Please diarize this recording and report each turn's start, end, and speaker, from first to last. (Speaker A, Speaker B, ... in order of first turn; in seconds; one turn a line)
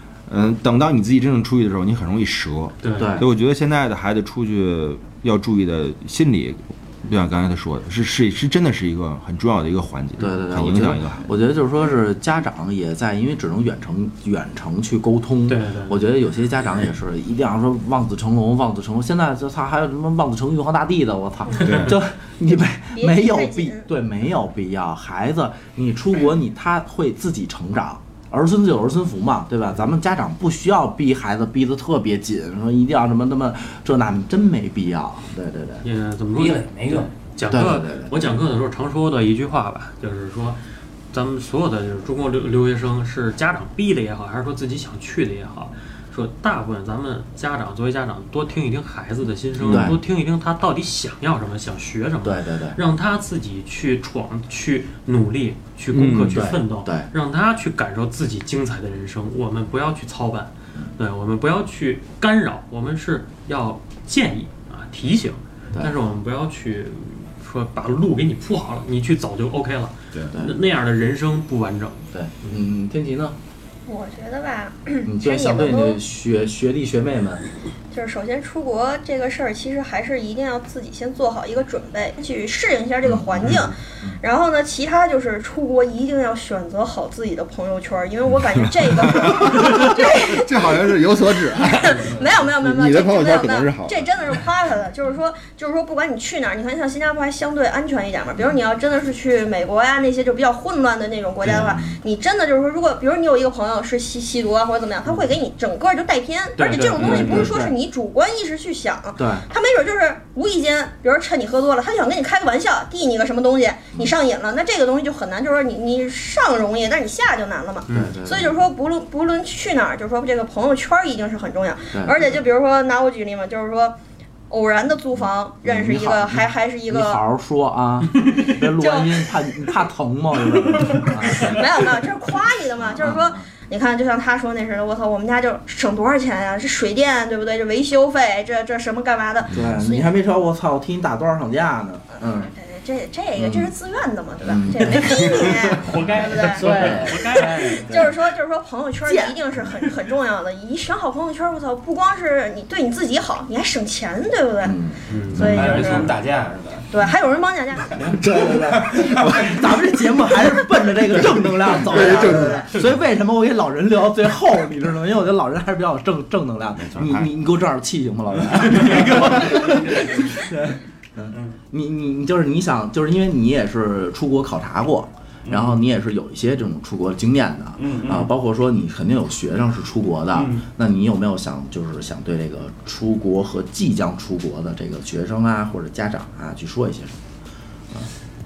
Speaker A: 0.3-11.2
Speaker B: 2.8-3.2
Speaker C: 3.0-3.3
Speaker C: 10.2-35.8
Speaker B: 15.5-16.0
Speaker B: 21.6-22.0
Speaker A: 21.6-22.0
Speaker D: 22.5-23.9
Speaker B: 35.8-40.6
Speaker E: 36.3-37.1
Speaker C: 37.5-38.3
Speaker B: 41.1-72.1
Speaker A: 49.6-49.9
Speaker C: 49.6-50.0
Speaker C: 52.2-52.8
Speaker A: 55.9-56.5
Speaker C: 56.3-57.1
Speaker C: 72.1-73.3
Speaker D: 73.8-76.0
Speaker C: 75.0-77.4
Speaker D: 77.9-124.0
Speaker C: 83.0-84.2
Speaker A: 89.1-94.3
Speaker C: 101.5-102.0
Speaker B: 106.5-107.5
Speaker C: 107.0-107.8
Speaker C: 109.2-109.5
Speaker B: 117.9-118.1
Speaker C: 117.9-118.6
Speaker C: 121.9-122.4
Speaker D: 124.5-127.2
Speaker C: 125.2-131.7
Speaker D: 128.7-129.8
Speaker D: 130.8-140.1
Speaker C: 132.8-133.5
Speaker C: 139.5-142.5
Speaker A: 139.5-139.8
Speaker D: 142.2-154.8
Speaker C: 143.3-143.7
Speaker C: 144.4-148.1
Speaker B: 144.8-148.0
Speaker E: 146.6-148.1
Speaker C: 149.0-149.4
Speaker C: 154.6-156.0
Speaker B: 155.1-156.1
Speaker D: 155.3-156.1
Speaker E: 155.4-156.9
Speaker D: 156.9-158.1
Speaker C: 157.9-187.2
Speaker E: 158.6-159.6
Speaker A: 161.1-162.8
Speaker D: 161.9-162.7
Speaker A: 166.8-167.3
Speaker E: 168.9-170.5
Speaker E: 175.4-175.8
Speaker E: 177.8-178.3
Speaker E: 180.3-180.6